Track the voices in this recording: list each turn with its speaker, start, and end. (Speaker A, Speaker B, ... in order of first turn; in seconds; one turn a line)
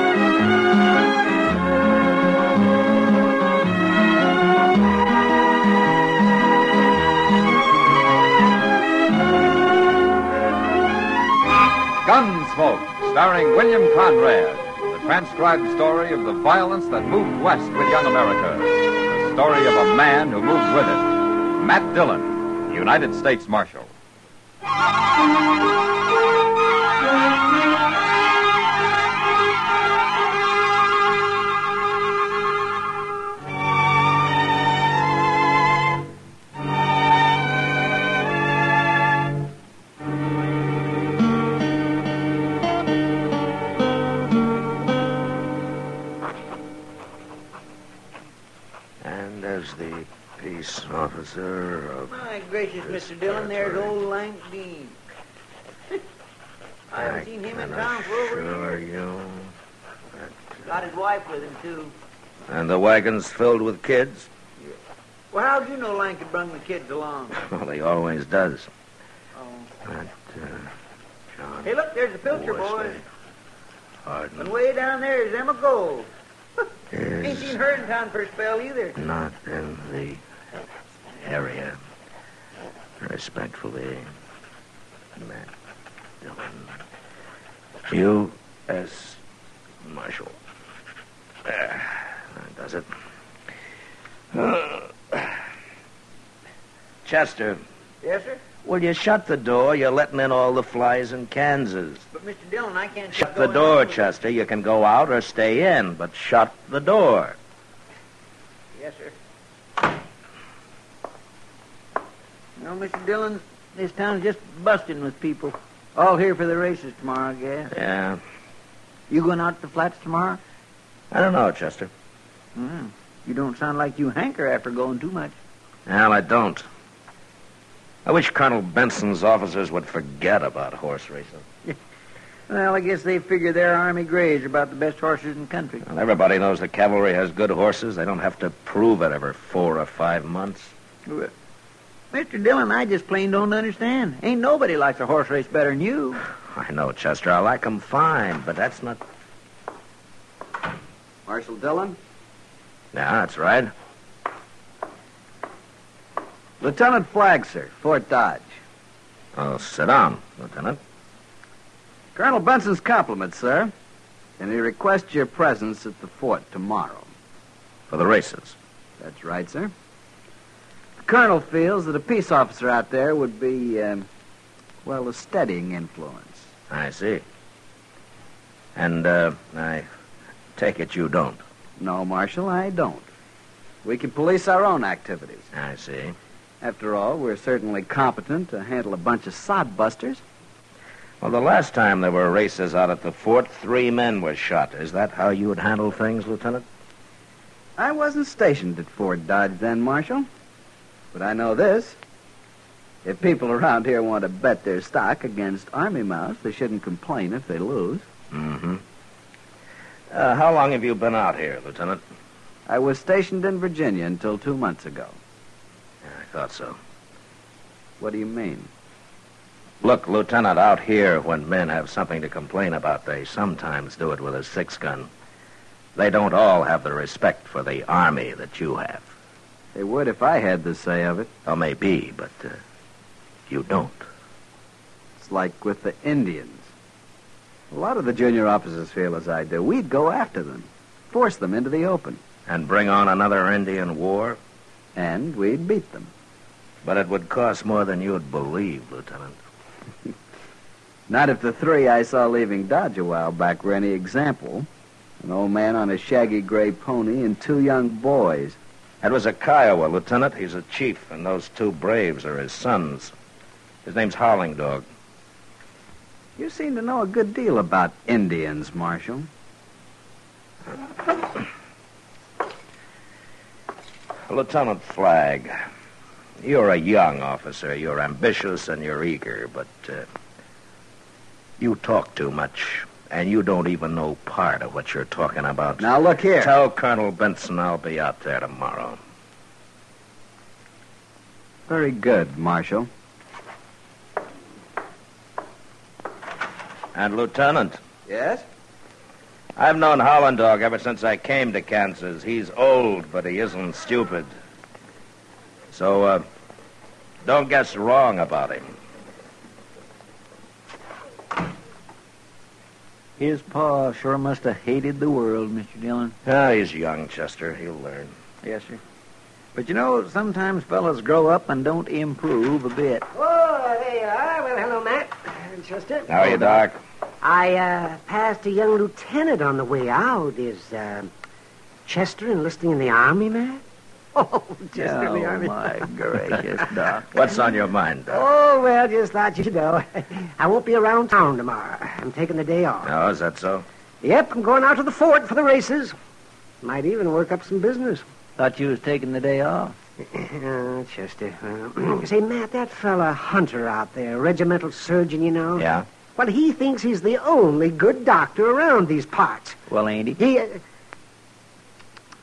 Speaker A: 12.0-23.9
Speaker B: 49.0-52.2
Speaker C: 52.1-55.0
Speaker B: 52.9-53.9
Speaker C: 56.9-58.8
Speaker B: 57.0-59.5
Speaker C: 60.6-61.9
Speaker B: 62.5-64.3
Speaker C: 65.3-67.4
Speaker B: 67.4-68.7
Speaker C: 69.4-69.7
Speaker B: 69.8-70.7
Speaker B: 71.4-71.7
Speaker C: 71.6-73.0
Speaker B: 72.3-73.0
Speaker B: 74.1-74.5
Speaker C: 74.4-76.1
Speaker B: 76.9-77.6
Speaker C: 77.2-79.0
Speaker B: 79.0-80.2
Speaker B: 81.2-81.8
Speaker B: 83.0-84.1
Speaker B: 85.2-85.5
Speaker B: 86.2-86.7
Speaker B: 87.9-89.2
Speaker B: 89.8-90.4
Speaker B: 91.5-92.9
Speaker B: 94.3-95.4
Speaker B: 97.0-97.6
Speaker C: 98.0-98.4
Speaker B: 98.6-102.1
Speaker C: 102.1-104.0
Speaker B: 103.1-107.4
Speaker C: 108.8-109.1
Speaker C: 112.6-117.7
Speaker B: 117.7-118.2
Speaker C: 119.1-120.4
Speaker B: 121.1-121.9
Speaker C: 122.5-125.4
Speaker B: 125.9-126.7
Speaker B: 128.1-131.4
Speaker C: 132.5-135.8
Speaker B: 135.8-140.7
Speaker C: 142.1-146.2
Speaker B: 146.5-149.0
Speaker D: 151.3-152.0
Speaker B: 152.9-153.7
Speaker D: 156.6-158.5
Speaker B: 159.3-160.8
Speaker D: 162.2-163.7
Speaker D: 164.4-167.1
Speaker B: 167.9-168.6
Speaker D: 169.0-169.7
Speaker D: 171.0-174.1
Speaker D: 174.8-176.5
Speaker B: 176.7-177.2
Speaker B: 178.8-179.9
Speaker B: 180.6-181.4
Speaker D: 181.8-183.1
Speaker D: 183.8-185.5
Speaker B: 185.5-186.2
Speaker D: 186.6-190.2
Speaker B: 191.2-196.6
Speaker D: 197.8-200.3
Speaker D: 201.1-202.0
Speaker D: 203.0-208.1
Speaker B: 208.3-208.8
Speaker B: 210.1-212.0
Speaker D: 212.7-215.2
Speaker B: 216.0-216.8
Speaker D: 218.0-218.7
Speaker B: 219.8-225.1
Speaker B: 225.9-229.1
Speaker D: 229.8-231.3
Speaker B: 231.5-232.6
Speaker B: 233.5-234.1
Speaker D: 235.2-236.7
Speaker D: 237.7-242.2
Speaker B: 242.5-244.4
Speaker D: 245.0-246.1
Speaker B: 246.8-249.4
Speaker D: 251.1-254.7
Speaker D: 255.2-258.6
Speaker B: 259.0-263.1
Speaker B: 263.9-264.9
Speaker D: 266.4-269.3
Speaker B: 274.3-275.5
Speaker B: 276.4-280.1
Speaker B: 281.6-289.0
Speaker D: 285.8-286.5
Speaker D: 291.7-292.9
Speaker B: 296.9-297.8
Speaker D: 298.1-298.4
Speaker B: 299.6-304.3
Speaker B: 305.7-306.2
Speaker B: 307.2-308.7
Speaker C: 313.2-316.1
Speaker B: 316.2-318.1
Speaker C: 318.4-318.8
Speaker C: 319.6-323.1
Speaker E: 323.1-326.1
Speaker B: 326.1-326.8
Speaker C: 326.2-326.5
Speaker E: 327.2-331.1
Speaker E: 331.9-333.6
Speaker E: 334.1-335.8
Speaker C: 334.8-337.1
Speaker B: 337.1-338.2
Speaker E: 338.1-342.9
Speaker B: 342.8-343.7
Speaker E: 344.0-345.9
Speaker E: 346.6-348.0
Speaker C: 348.4-349.8
Speaker E: 350.0-359.6
Speaker B: 355.6-355.9
Speaker C: 359.7-360.2
Speaker E: 360.2-360.6